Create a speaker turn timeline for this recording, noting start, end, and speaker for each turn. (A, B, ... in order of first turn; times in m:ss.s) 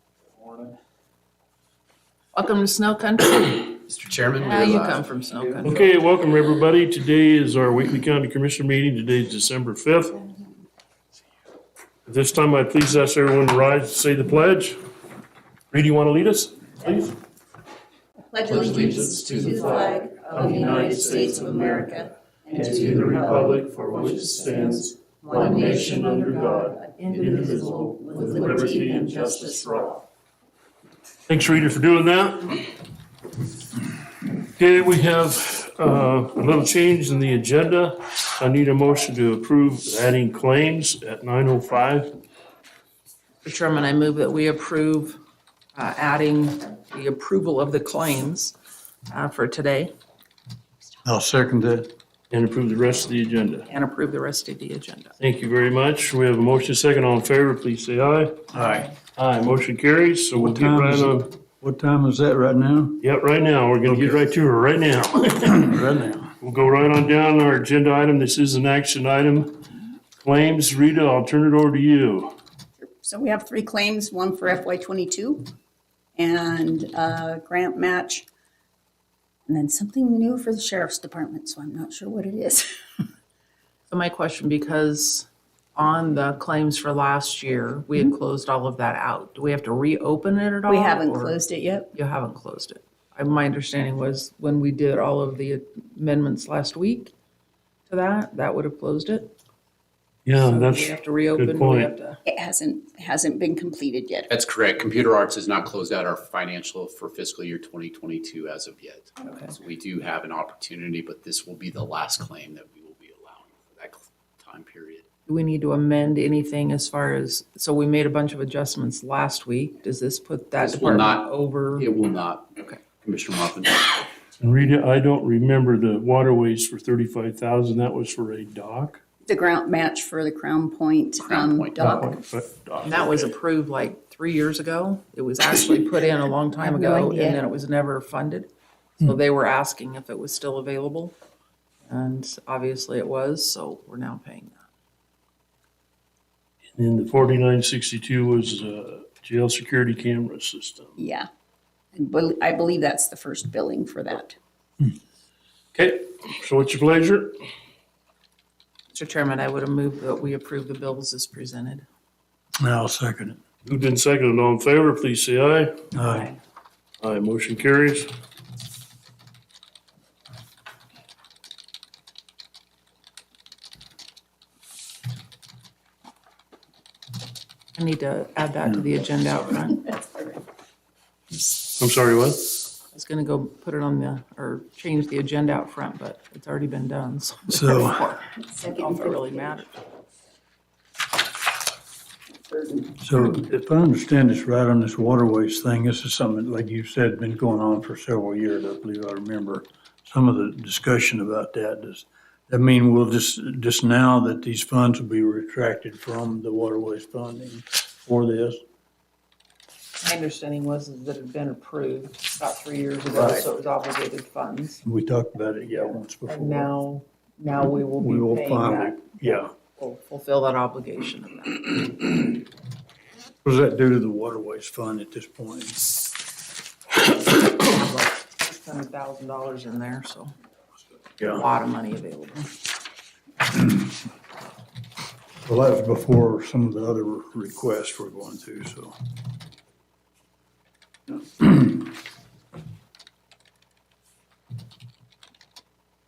0:02.3-0:03.8 A
0:03.9-0:05.6 B
0:04.4-0:05.8 A
0:05.6-0:10.2 C
0:12.0-0:14.8 C
0:15.7-0:17.2 C
0:18.3-0:23.5 D
0:18.4-0:21.9 C
0:18.8-0:19.7 B
0:22.5-0:30.0 C
0:23.9-0:29.8 A
0:25.2-0:26.1 D
0:28.1-0:29.0 D
0:31.3-0:32.6 C
0:34.6-0:42.1 C
0:43.4-0:45.2 A
0:45.7-0:48.6 A
0:49.1-0:49.9 A
0:51.0-0:51.9 E
0:52.3-0:53.7 C
0:53.7-0:55.1 A
0:55.2-0:58.4 C
0:58.5-0:58.9 E
0:58.5-0:58.9 A
0:59.2-1:01.3 C
1:00.3-1:03.0 E
1:03.0-1:05.8 C
1:05.6-1:06.3 E
1:06.4-1:09.6 C
1:10.2-1:12.3 C
1:12.8-1:15.5 D
1:16.2-1:18.2 D
1:19.5-1:22.7 D
1:23.9-1:31.4 A
1:30.6-1:31.9 D
1:31.9-1:37.1 A
1:37.9-1:39.3 A
1:40.2-1:41.9 C
1:40.4-1:42.2 A
1:42.2-1:44.3 D
1:44.3-1:55.0 B
1:49.2-1:49.5 A
1:55.3-2:01.9 A
2:00.6-2:04.0 B
2:04.4-2:09.0 C
2:09.2-2:12.2 D
2:11.2-2:12.1 B
2:11.8-2:13.3 C
2:12.8-2:18.5 A
2:16.6-2:17.4 D
2:19.0-2:21.1 A
2:21.8-2:24.6 A
2:26.7-2:31.0 C
2:31.0-2:31.3 D
2:31.9-2:34.4 D
2:35.7-2:37.4 C
2:38.9-2:41.8 A
2:42.6-2:43.4 E
2:43.6-2:45.8 C
2:45.9-2:46.3 E
2:46.0-2:46.4 A
2:47.0-2:48.1 C
2:57.7-3:00.0 A
2:58.6-2:58.9 E
3:01.5-3:02.5 C
3:02.9-3:09.8 A
3:07.5-3:08.1 E
3:08.5-3:09.6 D
3:12.4-3:13.0 D
3:13.0-3:28.6 E
3:30.0-3:34.8 A
3:33.1-3:33.4 E
3:34.8-3:36.7 E
3:36.3-3:41.9 A
3:38.0-3:39.5 E
3:43.4-3:45.9 E
3:47.4-3:50.3 A
3:51.2-3:52.5 A
3:55.4-3:58.9 E
4:01.1-4:01.5 E